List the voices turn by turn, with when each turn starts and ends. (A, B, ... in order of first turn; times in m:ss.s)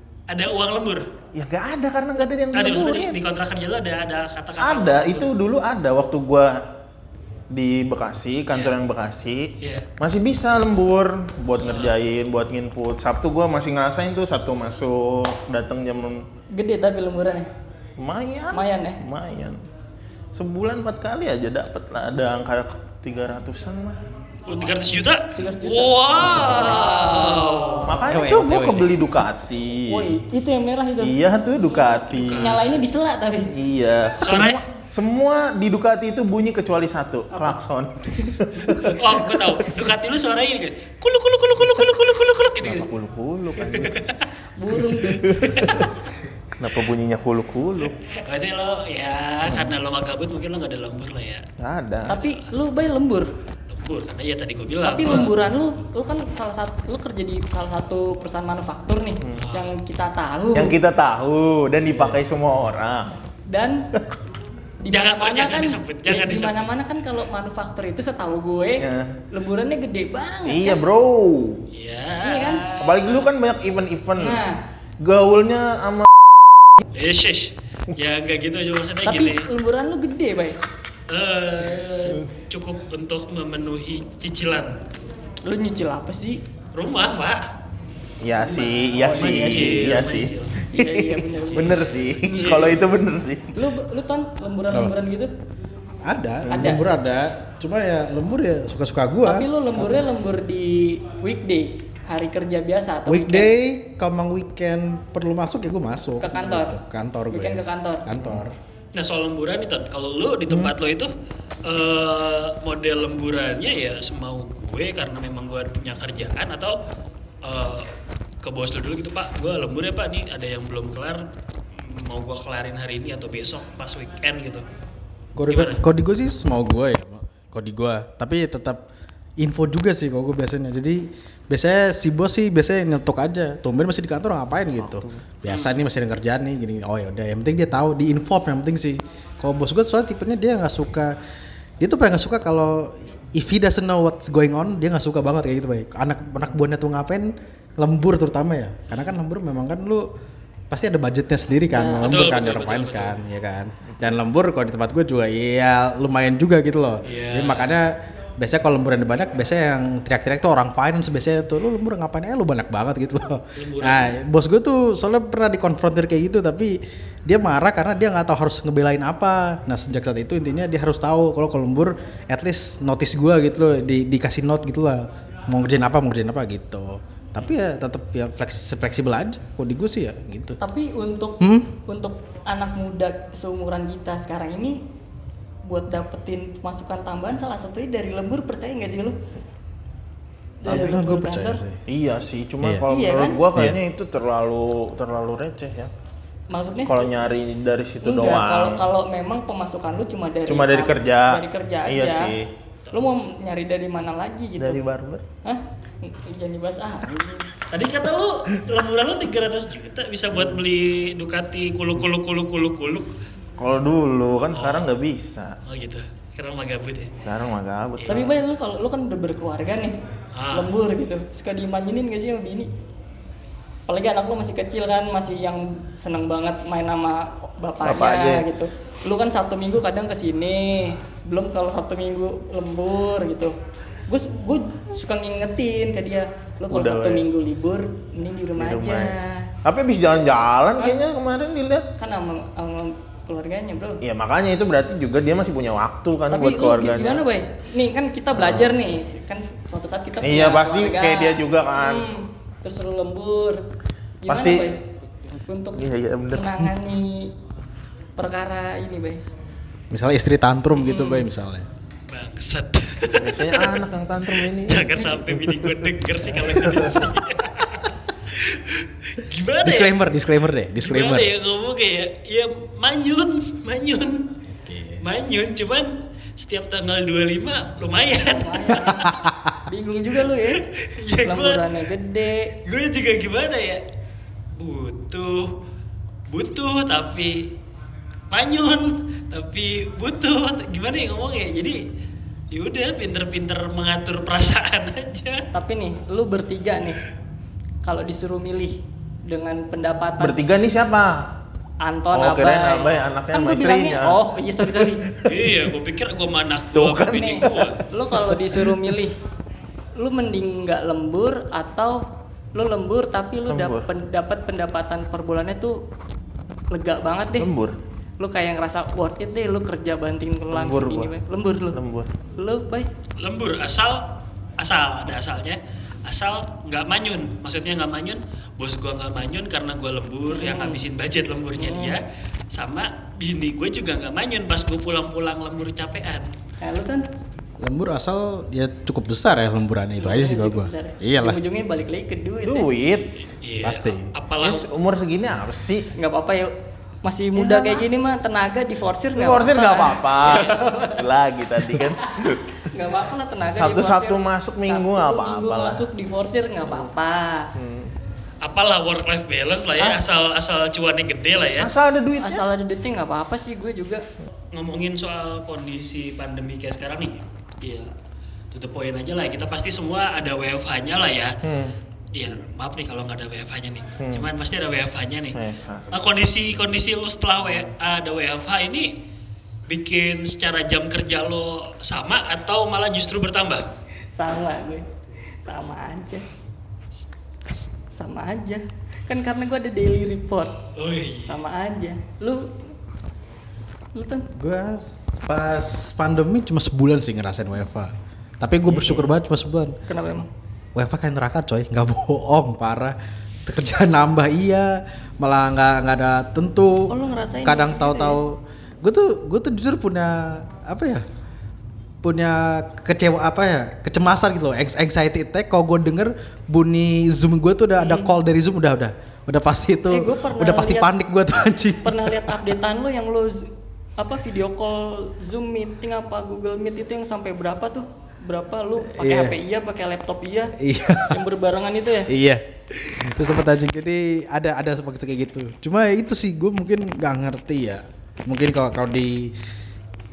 0:00.3-0:01.1 A
0:01.3-0:03.2 B
0:02.5-0:05.3 A
0:04.6-0:06.7 B
0:07.5-0:16.2 B
0:09.6-0:09.8 A
0:11.6-0:12.0 A
0:16.5-0:17.5 C
0:18.0-0:19.6 B
0:18.5-0:19.0 C
0:20.3-0:24.0 B
0:24.5-0:27.9 C
0:24.5-0:27.9 A
0:26.2-0:26.6 D
0:27.8-0:30.2 B
0:28.1-0:29.0 D
0:29.9-0:31.2 C
0:31.0-0:32.6 B
0:31.8-0:32.7 A
0:32.4-0:33.5 C
0:33.5-0:39.2 B
0:34.2-0:34.6 A
0:38.2-0:38.9 C
0:38.9-0:42.9 A
0:42.6-0:44.0 B
0:43.6-0:44.2 A
0:44.6-0:45.8 C
0:45.0-0:45.9 B
0:45.5-0:46.1 A
0:46.6-0:48.0 B
0:47.8-0:51.4 A
0:49.4-0:49.7 B
0:51.6-0:52.2 B
0:52.1-0:53.3 C
0:53.7-0:55.3 A
0:54.8-1:00.8 C
0:59.4-0:59.7 A
1:00.5-1:03.2 B
1:03.5-1:03.9 C
1:04.8-1:10.8 C
1:04.9-1:06.7 A
1:08.8-1:09.2 B
1:10.4-1:11.6 B
1:11.7-1:13.3 A
1:12.2-1:12.7 C
1:12.8-1:14.4 B
1:14.2-1:14.6 C
1:15.0-1:16.1 B
1:16.9-1:19.5 A
1:19.0-1:20.6 C
1:21.1-1:24.8 A
1:25.4-1:26.4 C
1:26.7-1:27.4 A
1:28.2-1:33.5 B
1:28.5-1:30.0 C
1:29.0-1:30.6 A
1:30.7-1:32.0 C
1:31.6-1:32.8 A
1:33.5-1:35.3 C
1:36.0-1:40.0 D
1:36.4-1:36.8 B
1:36.5-1:36.8 C
1:39.2-1:43.5 C
1:43.0-1:48.5 D
1:46.2-1:46.8 C
1:47.3-1:48.0 C
1:48.9-1:51.1 A
1:51.6-1:56.7 A
1:57.4-1:57.9 A
1:58.4-2:01.2 A
2:01.8-2:04.6 A
2:05.4-2:08.8 D
2:05.5-2:05.8 A
2:09.4-2:21.2 D
2:14.8-2:15.2 B
2:15.5-2:15.8 A
2:21.8-2:30.1 D
2:30.7-3:00.6 D
2:31.7-2:32.1 C
2:32.0-2:33.2 A
2:37.0-2:37.8 A
2:43.6-2:44.2 A
3:00.6-3:04.8 C
3:01.4-3:01.7 D
3:05.6-3:09.2 C
3:10.6-3:11.6 C
3:10.6-3:11.8 D
3:10.6-3:11.0 B
3:11.9-3:15.9 B
3:12.6-3:12.9 D
3:12.9-3:13.4 C
3:16.5-3:17.1 C
3:16.8-3:18.8 B
3:18.0-3:22.3 C
3:20.5-3:22.5 B
3:22.9-3:24.8 C
3:24.6-3:25.2 B
3:25.4-3:27.5 C
3:27.7-3:33.1 A
3:30.3-3:30.6 B
3:33.6-3:35.6 B
3:34.5-3:34.9 A
3:35.6-3:37.1 A
3:37.2-3:38.4 B
3:38.1-3:40.0 C
3:40.3-3:40.7 A
3:40.5-3:42.7 C
3:43.9-3:53.6 C
3:47.8-3:48.4 B
3:54.1-3:59.5 C
3:56.7-3:57.2 B
3:58.6-4:01.9 B
4:02.0-4:04.0 C
4:04.0-4:07.2 B
4:06.3-4:13.6 C
4:08.3-4:08.8 B
4:10.2-4:12.1 B
4:14.2-4:14.8 C
4:14.3-4:14.7 B
4:15.5-4:17.3 C
4:15.8-4:16.6 B
4:18.2-4:19.2 C
4:19.9-4:21.7 D
4:20.7-4:21.2 C
4:22.1-4:30.0 A
4:23.1-4:25.7 B
4:26.3-4:27.1 B
4:29.6-4:31.3 D
4:30.8-4:34.3 A
4:34.6-4:35.0 D
4:35.0-4:39.1 A
4:38.2-4:39.1 C
4:38.9-4:39.5 D
4:39.7-4:40.6 C
4:40.6-4:41.8 A
4:41.2-4:42.5 C
4:42.6-4:43.8 A
4:44.6-4:45.5 A
4:46.3-4:47.5 A
4:48.3-4:51.8 A
4:52.5-4:55.4 A
4:55.5-4:57.0 C
4:57.8-5:00.4 C
5:00.2-5:01.3 B
5:01.8-5:05.0 C
5:02.1-5:05.7 B
5:05.2-5:07.8 A
5:06.7-5:08.9 B
5:07.2-5:09.2 C
5:10.0-5:12.0 C
5:12.5-5:15.8 C
5:13.5-5:13.8 B
5:16.7-5:17.5 C
5:17.4-5:17.8 B
5:18.2-5:21.8 C
5:20.5-5:21.1 B
5:21.7-5:22.1 B
5:22.4-5:22.9 C
5:23.2-5:36.3 A
5:30.3-5:30.8 C
5:31.6-5:32.0 C
5:36.6-5:37.0 C
5:37.6-5:41.4 D
5:40.0-5:42.7 C
5:42.4-5:43.1 B
5:43.4-5:44.7 A
5:43.6-5:44.1 D
5:44.4-5:45.9 B
5:46.0-5:46.5 C
5:47.0-5:51.0 C
5:47.3-5:47.8 B
5:49.1-5:52.6 B
5:51.7-5:57.5 C
5:53.5-5:55.9 B
5:57.5-5:57.9 B
5:58.4-6:01.7 A
6:01.5-6:02.4 B
6:02.2-6:04.0 C
6:04.5-6:07.9 A
6:08.5-6:11.4 A
6:11.4-6:11.7 B
6:12.1-6:15.4 A
6:14.0-6:14.3 B
6:15.3-6:15.9 B
6:15.9-6:18.9 A
6:19.7-6:23.6 A
6:24.1-6:24.9 C
6:25.4-6:26.2 C
6:27.9-6:30.6 C
6:30.8-6:31.4 A
6:31.2-6:32.7 C
6:33.9-6:34.3 C
6:34.3-6:39.8 D
6:38.6-6:39.1 B
6:39.9-6:40.3 C
6:40.7-6:46.9 D
6:46.9-6:48.2 C
6:47.4-6:51.0 D
6:52.0-7:02.3 D
6:57.8-6:58.1 C
6:59.9-7:00.9 C
7:01.8-7:12.1 C
7:08.8-7:09.4 D
7:10.6-7:11.2 D
7:12.1-7:19.3 D